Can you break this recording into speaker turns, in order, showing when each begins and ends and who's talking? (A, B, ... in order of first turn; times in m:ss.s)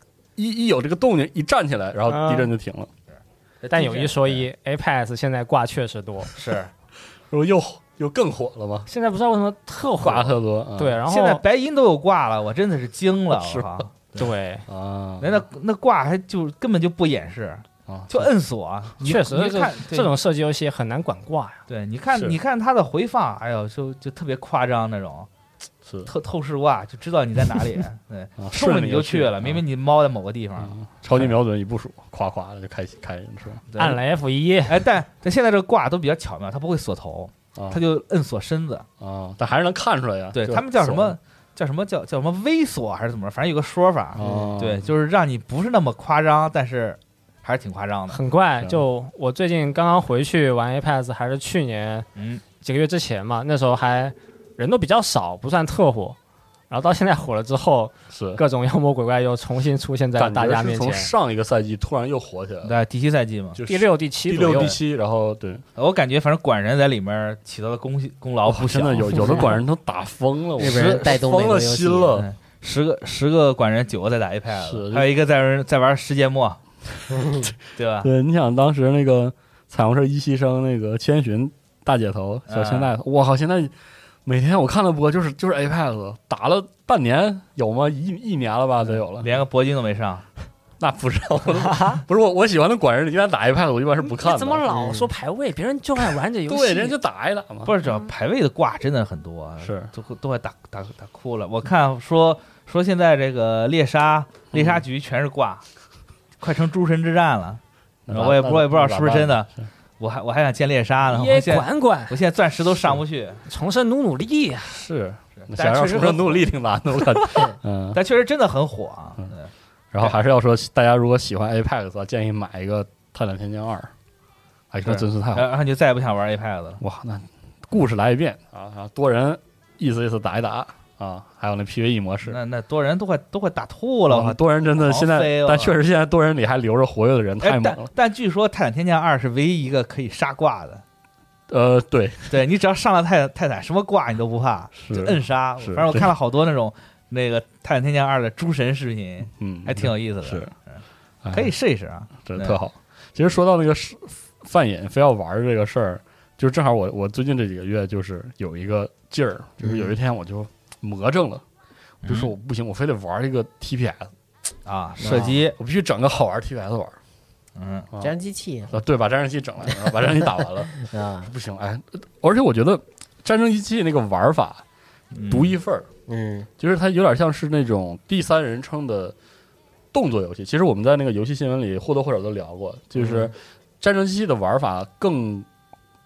0:00.4-0:02.9 A
0:02.1-0:02.5 B
0:03.6-0:04.4 C
0:03.7-0:06.3 B
0:06.4-0:06.7 C
0:07.3-0:08.9 A
0:08.9-0:11.4 B
0:10.0-0:11.0 A
0:11.1-0:14.3 C
0:13.3-0:13.7 A
0:14.2-0:14.6 B
0:14.7-0:15.4 A
0:15.2-0:20.1 C
0:17.9-0:18.3 A
0:19.0-0:21.6 B
0:21.7-0:25.3 C
0:26.0-0:31.3 C
0:28.4-0:29.6 A
0:30.6-0:33.6 A
0:33.7-0:34.0 C
0:33.8-0:34.8 B
0:34.7-0:38.8 C
0:39.0-0:41.2 A
0:40.3-0:48.2 C
0:44.1-0:44.9 A
0:44.2-0:44.6 D
0:48.1-0:52.0 B
0:52.2-0:52.4 C
0:52.6-0:56.2 B
0:56.7-1:01.1 B
0:58.1-0:58.4 A
1:00.2-1:02.7 A
1:02.6-1:03.6 C
1:03.6-1:05.6 A
1:03.6-1:04.7 B
1:04.4-1:04.8 C
1:05.8-1:09.5 C
1:08.4-1:12.3 A
1:09.1-1:09.5 D
1:10.6-1:12.2 D
1:10.6-1:11.1 C
1:12.2-1:16.6 C
1:14.5-1:15.0 A
1:17.1-1:17.5 D
1:17.8-1:18.1 C
1:18.0-1:23.7 A
1:22.5-1:22.9 C
1:24.2-1:29.3 A
1:28.8-1:30.2 C
1:30.8-1:34.6 A
1:31.7-1:32.0 B
1:34.0-1:36.9 B
1:34.7-1:35.1 D
1:36.5-1:37.7 A
1:37.6-1:45.6 C
1:39.6-1:39.9 A
1:44.5-1:44.8 A
1:46.4-1:53.4 C
1:48.1-1:49.5 A
1:51.0-1:52.2 B
1:53.4-1:54.8 B
1:54.7-1:58.0 A
1:55.4-1:56.5 C
1:57.9-2:00.2 C
1:59.9-2:03.9 A
2:04.7-2:05.4 A
2:04.8-2:06.8 C
2:06.8-2:12.4 A
2:12.2-2:15.8 C
2:14.1-2:17.9 A
2:17.4-2:20.8 C
2:21.5-2:22.3 A
2:22.3-2:32.6 C
2:24.8-2:26.1 A
2:29.4-2:30.5 A
2:31.2-2:31.5 A
2:32.2-2:41.4 A
2:39.6-2:39.9 D
2:42.0-2:42.3 C
2:42.0-2:44.1 A
2:44.6-2:45.6 C
2:45.0-2:45.4 D
2:45.6-2:47.0 A
2:47.6-2:47.9 C
2:48.0-2:48.8 D
2:48.7-2:54.6 A
2:49.8-2:51.3 D
2:55.1-2:55.6 C
2:55.3-2:55.9 A
2:56.1-2:56.5 D
2:56.6-2:59.1 A
2:59.9-3:05.5 A
3:03.0-3:03.3 D